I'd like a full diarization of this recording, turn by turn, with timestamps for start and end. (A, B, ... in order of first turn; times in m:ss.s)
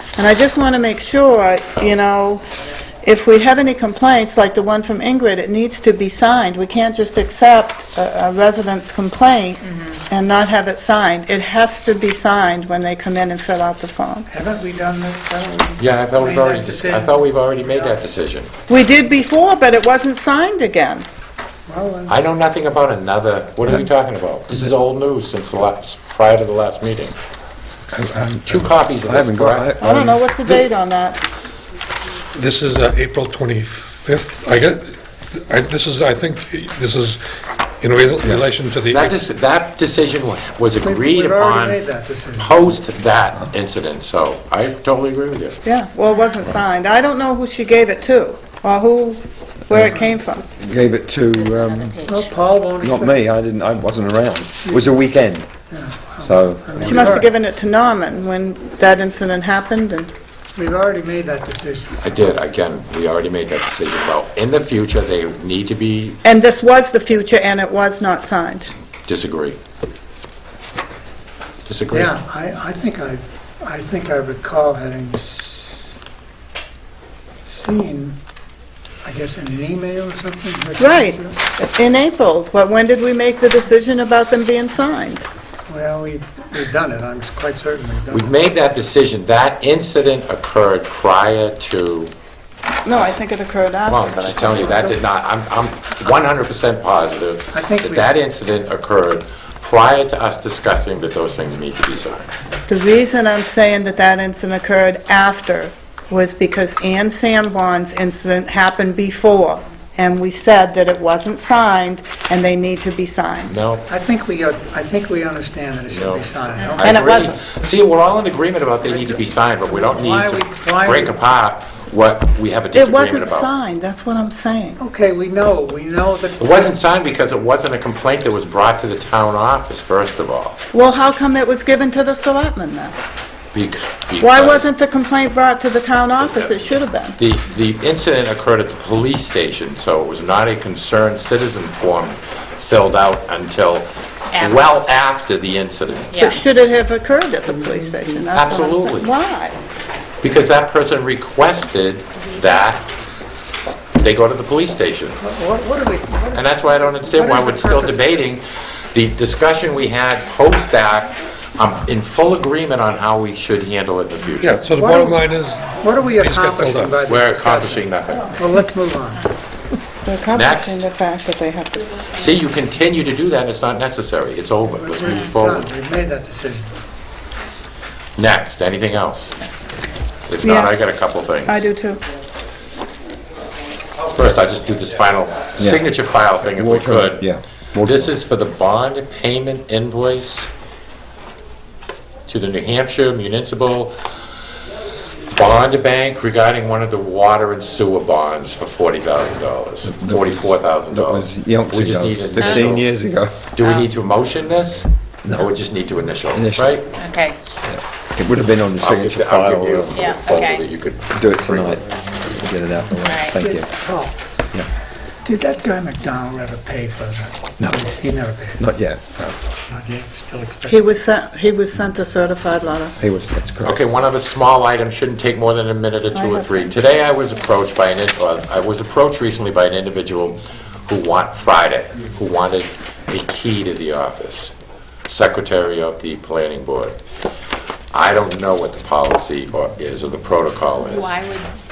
0:00.2-0:02.4 A
0:03.0-0:14.3 A
0:09.7-0:09.9 B
0:14.3-0:18.0 C
0:15.8-0:18.5 D
0:18.7-0:21.0 A
0:21.7-0:22.2 C
0:22.1-0:27.2 D
0:27.9-0:30.2 E
0:28.4-0:29.9 D
0:29.8-0:31.2 A
0:32.3-0:34.9 F
0:35.5-0:37.2 F
0:37.8-0:39.2 F
0:38.9-0:45.6 D
0:40.8-0:42.7 C
0:45.6-0:50.4 A
0:46.1-0:46.4 B
0:49.7-0:52.0 E
0:51.3-0:52.3 B
0:52.0-0:53.2 C
0:52.8-0:55.5 E
0:55.7-0:57.3 C
0:56.2-0:57.2 E
0:56.8-1:00.1 A
1:00.5-1:02.4 C
1:02.0-1:06.2 D
1:06.2-1:08.7 A
1:09.0-1:09.6 D
1:11.6-1:12.2 D
1:11.9-1:16.0 C
1:17.4-1:18.2 C
1:19.0-1:21.4 C
1:20.8-1:25.3 A
1:25.7-1:28.3 C
1:28.1-1:32.1 D
1:32.8-1:34.7 A
1:33.8-1:42.3 D
1:34.6-1:35.0 C
1:37.5-1:38.1 C
1:42.7-1:53.6 A
1:53.4-1:53.8 D
1:53.9-1:56.9 C
1:55.9-2:03.5 D
1:56.8-1:57.4 A
1:58.8-2:01.2 C
2:02.7-2:04.8 A
2:04.8-2:06.7 C
2:06.4-2:10.6 D
2:10.7-2:13.0 A
2:13.5-2:14.7 D
2:14.2-2:17.2 A
2:16.2-2:16.6 D
2:17.2-2:26.2 D
2:24.3-2:24.6 B
2:26.1-2:26.4 B
2:26.2-2:29.6 A
2:28.3-2:29.1 D
2:30.2-2:32.8 D
2:34.0-2:35.2 D
2:35.2-2:38.4 C
2:36.3-2:44.6 D
2:44.4-2:47.0 F
2:44.7-2:49.2 C
2:47.0-2:48.4 D
2:50.0-2:52.2 A
2:50.3-2:50.8 D
2:52.1-2:55.7 D
2:54.7-2:56.8 C
2:55.0-2:55.4 B
2:58.2-2:59.4 D
3:00.3-3:01.7 D
3:00.4-3:00.8 A
3:01.4-3:02.0 A
3:04.0-3:07.3 D
3:05.6-3:05.9 E
3:06.4-3:08.1 E
3:07.8-3:10.5 D
3:12.3-3:14.0 D
3:15.3-3:22.9 D
3:19.9-3:23.4 E
3:22.4-3:22.7 B
3:23.5-3:27.0 D
3:23.6-3:23.9 B
3:25.2-3:25.5 E
3:26.3-3:26.7 E
3:27.0-3:27.4 B
3:27.7-3:30.1 E
3:28.8-3:31.8 D
3:29.9-3:30.6 B
3:31.1-3:33.7 E
3:33.0-3:33.4 B
3:33.4-3:34.2 C
3:35.2-3:38.6 C
3:38.6-3:39.4 E
3:39.7-3:40.8 C
3:40.7-3:43.0 A
3:43.0-3:43.8 E
3:43.6-3:54.5 D
3:46.1-3:46.7 A
3:55.1-3:57.0 D
3:57.9-4:01.1 D
4:00.9-4:01.5 B